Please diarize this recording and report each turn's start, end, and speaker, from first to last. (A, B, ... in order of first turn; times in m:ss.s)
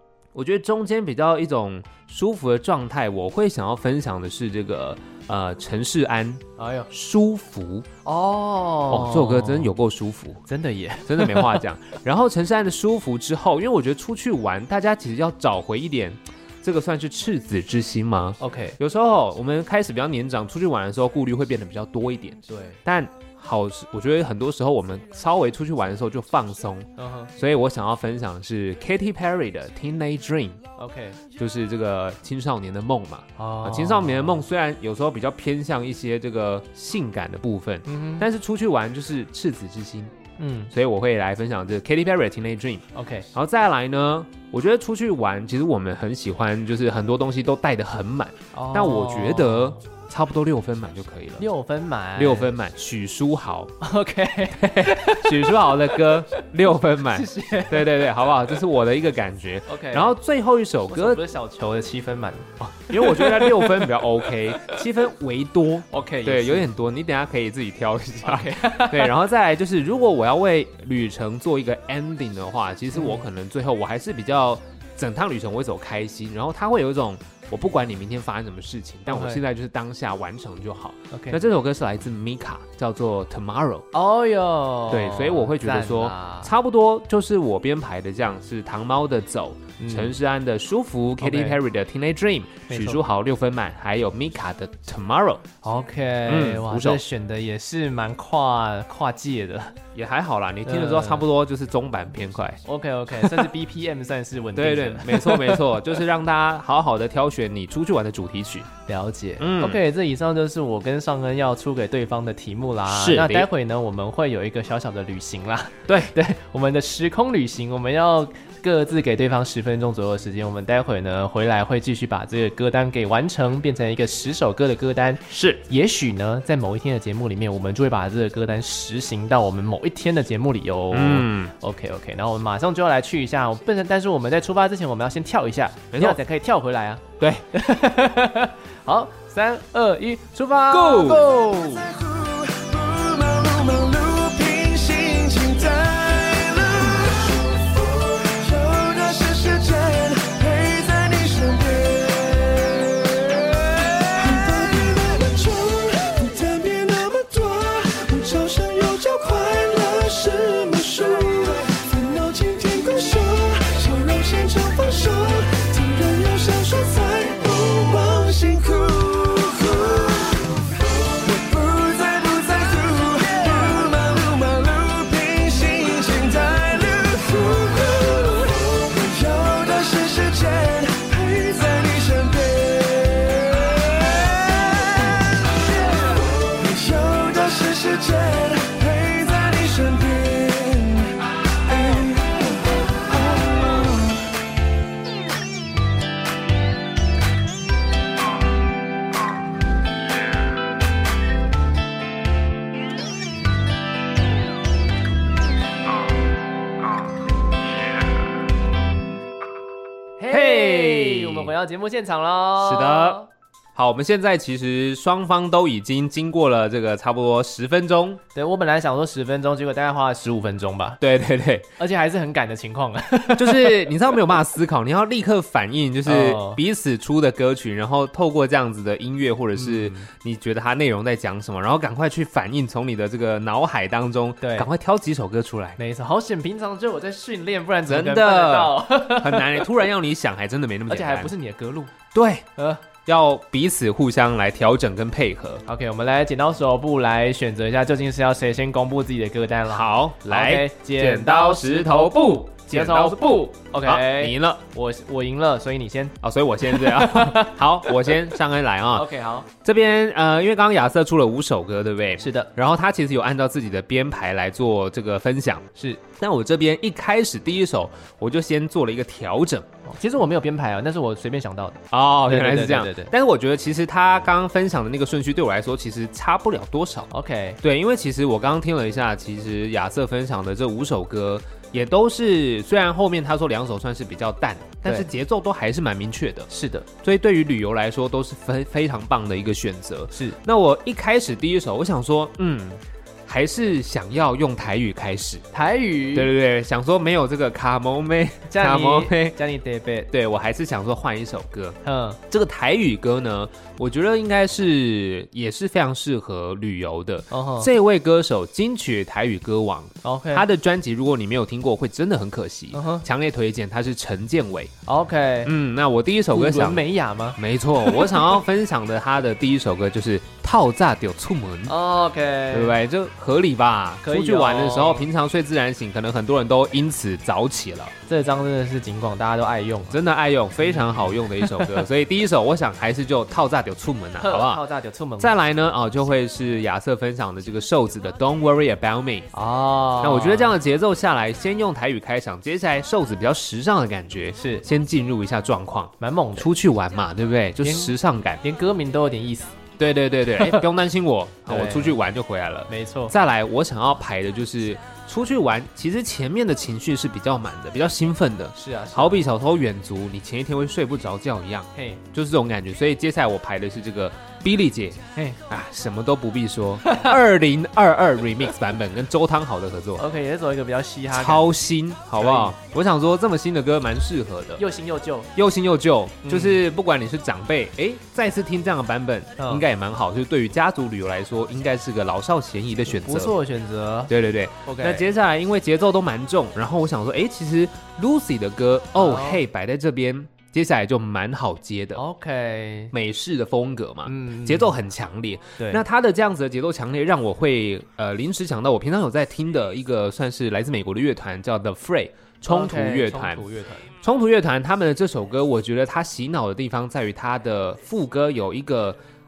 0:00.3-0:07.9 A
0:06.6-0:06.9 B
0:08.0-0:09.7 B
0:08.9-0:10.4 A
0:10.5-0:11.6 B
0:11.0-0:30.6 A
0:18.4-0:18.8 B
0:22.5-0:22.8 B
0:27.0-0:27.3 B
0:30.8-0:31.2 B
0:31.4-0:40.1 A
0:33.4-0:34.4 B
0:37.8-0:38.3 B
0:40.4-0:40.7 B
0:40.7-0:51.4 A
0:42.9-0:43.3 B
0:48.5-0:49.8 B
0:51.4-0:52.5 B
0:52.2-0:53.7 A
0:53.8-0:56.4 B
0:54.6-1:01.2 A
0:57.0-0:58.0 B
0:59.7-1:00.2 B
1:00.9-1:04.8 B
1:02.6-1:23.9 A
1:05.9-1:06.7 B
1:08.2-1:09.1 B
1:12.9-1:13.2 B
1:19.1-1:19.4 B
1:21.1-1:21.4 B
1:23.9-1:26.5 B
1:24.9-1:35.4 A
1:29.8-1:30.2 B
1:31.2-1:31.6 B
1:32.7-1:33.0 B
1:35.6-1:39.8 B
1:36.3-1:37.0 A
1:39.9-1:42.6 A
1:40.6-1:41.2 B
1:42.6-1:45.7 B
1:43.1-1:43.5 A
1:44.5-1:48.7 A
1:48.9-2:27.3 B
1:49.4-1:49.8 A
1:52.9-1:53.5 A
1:55.9-1:56.1 A
2:05.3-2:05.6 A
2:10.9-2:11.5 A
2:15.9-2:16.2 A
2:17.2-2:17.4 A
2:20.7-2:21.4 A
2:25.1-2:25.6 C
2:28.2-2:32.3 B
2:29.1-2:31.9 C
2:34.1-2:48.4 B
2:36.6-2:38.4 C
2:39.0-2:40.7 C
2:42.2-2:49.6 C
2:49.5-2:50.4 B
2:51.2-2:59.6 B
2:51.4-2:57.0 C
2:59.1-3:03.4 C
3:06.8-3:11.2 C
3:30.2-3:33.3 B
3:30.3-3:31.5 A
3:32.6-3:33.2 A
3:33.7-3:38.2 A
3:38.3-3:41.0 B
3:41.0-3:41.7 A
3:41.8-3:43.9 B
3:43.3-3:55.8 A
3:46.0-3:46.6 B
3:49.5-3:50.1 B
3:54.4-3:54.7 B
3:55.8-3:59.7 B
3:57.9-4:01.3 A
4:00.9-4:01.9 B
4:02.1-4:02.5 A
4:02.6-4:02.8 B
4:03.0-4:05.6 A
4:05.6-4:18.3 B
4:09.7-4:14.6 A
4:16.2-4:19.1 A
4:18.9-4:19.5 B
4:19.6-4:29.7 A
4:22.2-4:22.5 B
4:25.8-4:26.0 B
4:29.8-4:33.1 B
4:31.9-4:37.1 A
4:37.1-4:37.6 B
4:37.6-4:46.5 A
4:46.5-4:46.9 B
4:47.0-4:55.4 A
4:55.5-4:56.3 B
4:56.1-4:59.4 A
4:58.5-5:00.1 B
5:00.1-5:01.8 A
5:01.8-5:02.2 B
5:02.3-5:14.7 A
5:07.3-5:07.7 B
5:10.0-5:10.4 B
5:12.7-5:13.0 B
5:14.8-5:15.5 B
5:15.4-5:16.8 A
5:16.3-5:18.3 B
5:17.4-5:21.8 A
5:21.7-5:22.8 B
5:22.5-5:27.9 A
5:24.0-5:25.1 B
5:28.1-5:30.0 B
5:29.9-5:34.6 A
5:30.6-5:31.8 B
5:34.2-5:35.3 B
5:35.2-5:39.3 A
5:39.3-5:40.6 B
5:40.0-5:48.4 A
5:44.4-5:44.6 B
5:46.0-5:46.5 B
5:47.6-5:49.6 B
5:49.8-6:10.0 A
5:50.4-5:50.7 B
5:51.5-5:52.0 B
5:52.7-5:53.1 B
5:58.5-5:59.3 B
6:01.7-6:02.0 B
6:06.8-6:07.1 B
6:10.0-6:11.5 B
6:11.1-6:14.6 A
6:12.2-6:12.5 B
6:14.6-6:15.3 B
6:15.3-6:23.3 A
6:16.2-6:16.6 B
6:19.4-6:19.6 B
6:22.8-6:24.1 B
6:24.1-6:32.0 A
6:24.6-6:25.1 B
6:29.0-6:29.4 B
6:31.9-6:32.9 B
6:32.9-6:43.4 A
6:34.0-6:34.8 B
6:35.6-6:35.8 B
6:42.5-6:43.9 B
6:44.0-6:49.0 A